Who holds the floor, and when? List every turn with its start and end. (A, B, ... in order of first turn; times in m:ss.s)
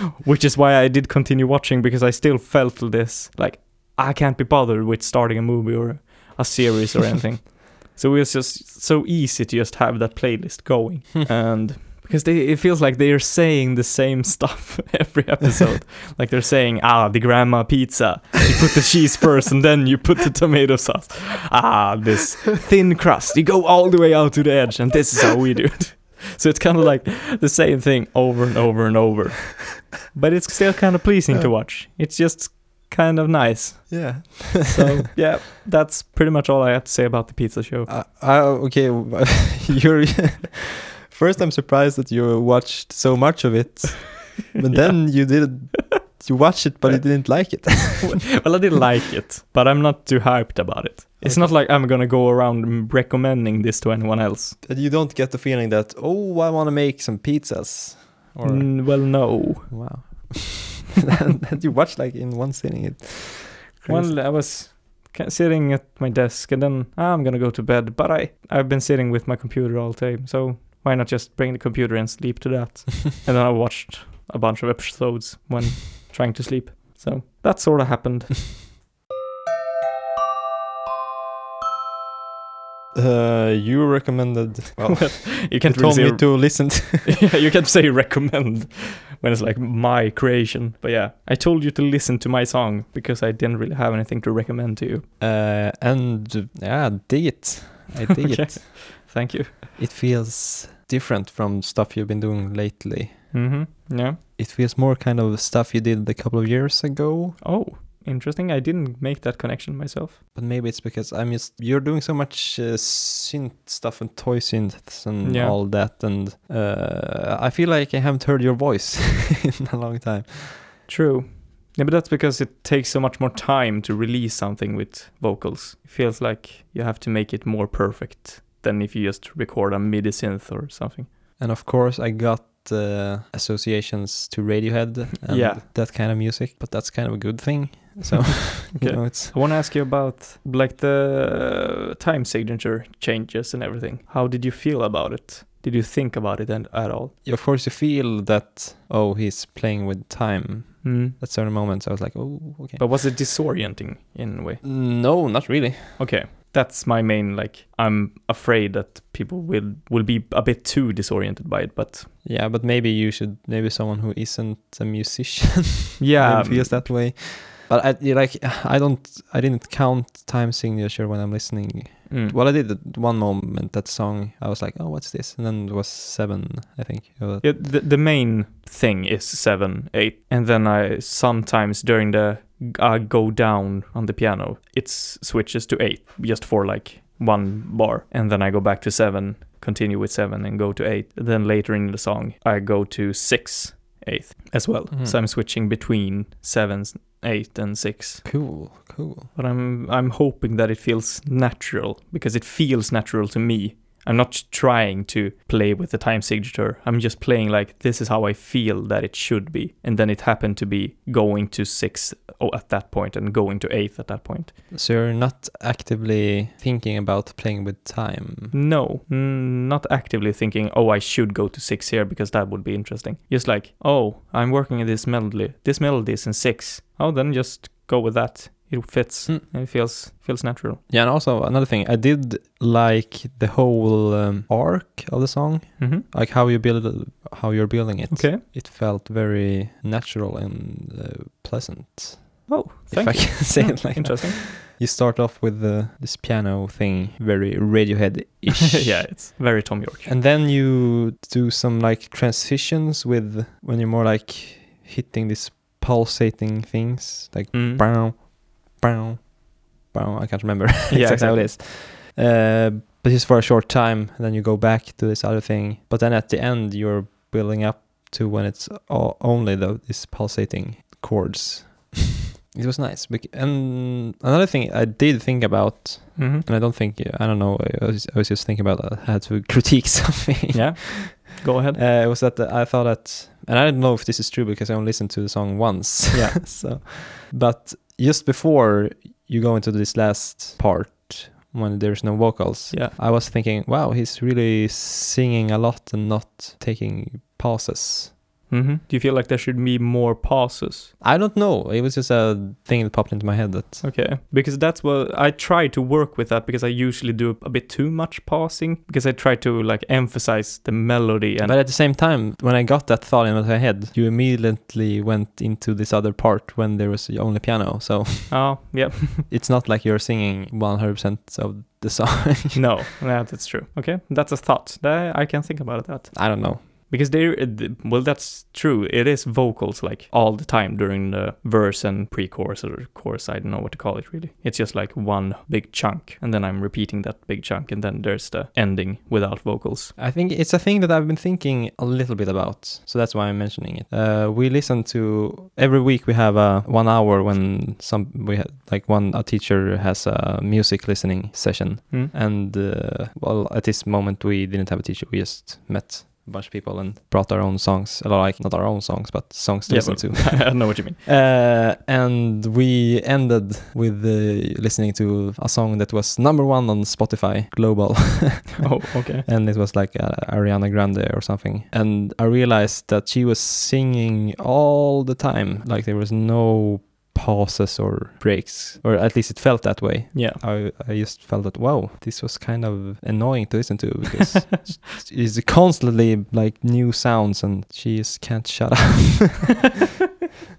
0:00.2-0:37.9 A
0:33.9-0:35.0 B
0:37.9-0:48.3 B
0:44.7-0:45.0 A
0:48.0-0:54.6 A
0:51.2-0:51.6 B
0:54.6-1:04.2 B
0:58.4-0:59.7 A
1:03.9-1:18.6 A
1:22.9-1:27.2 B
1:24.8-1:35.1 A
1:35.2-1:39.0 B
1:38.2-1:39.6 A
1:39.8-1:43.3 B
1:43.3-1:44.2 A
1:44.4-1:47.4 B
1:47.4-1:50.2 A
1:50.3-2:00.8 B
1:55.2-1:55.6 A
2:00.9-2:11.1 A
2:11.4-2:19.4 B
2:15.3-2:15.6 A
2:18.7-2:27.1 A
2:27.2-2:32.9 B
2:30.8-2:31.2 A
2:32.8-2:34.6 A
2:34.6-2:36.0 B
2:36.0-2:42.1 A
2:42.2-2:57.6 B
2:46.0-2:46.9 A
2:52.1-2:52.4 A
2:57.4-3:18.4 A
3:18.2-3:19.3 B
3:19.4-3:34.5 A
3:34.7-3:38.5 B
3:38.5-3:50.8 A
3:50.9-4:09.4 B
3:55.8-3:56.1 A
3:58.1-3:58.4 A
4:02.5-4:04.4 A
4:08.7-4:10.1 A
4:10.0-4:58.2 B
4:17.5-4:17.8 A
4:20.9-4:21.5 A
4:36.2-4:36.5 A
4:40.5-4:41.8 A
4:46.1-4:46.4 A
4:58.5-5:00.9 A
5:01.0-5:03.8 B
5:03.8-5:11.6 A
5:11.4-5:18.6 B
5:18.3-5:19.3 A
5:19.3-5:22.7 B
5:22.5-5:39.9 A
5:26.1-5:26.6 B
5:40.0-6:29.7 B
5:59.7-6:01.0 A
6:08.6-6:09.3 A
6:20.1-6:20.4 A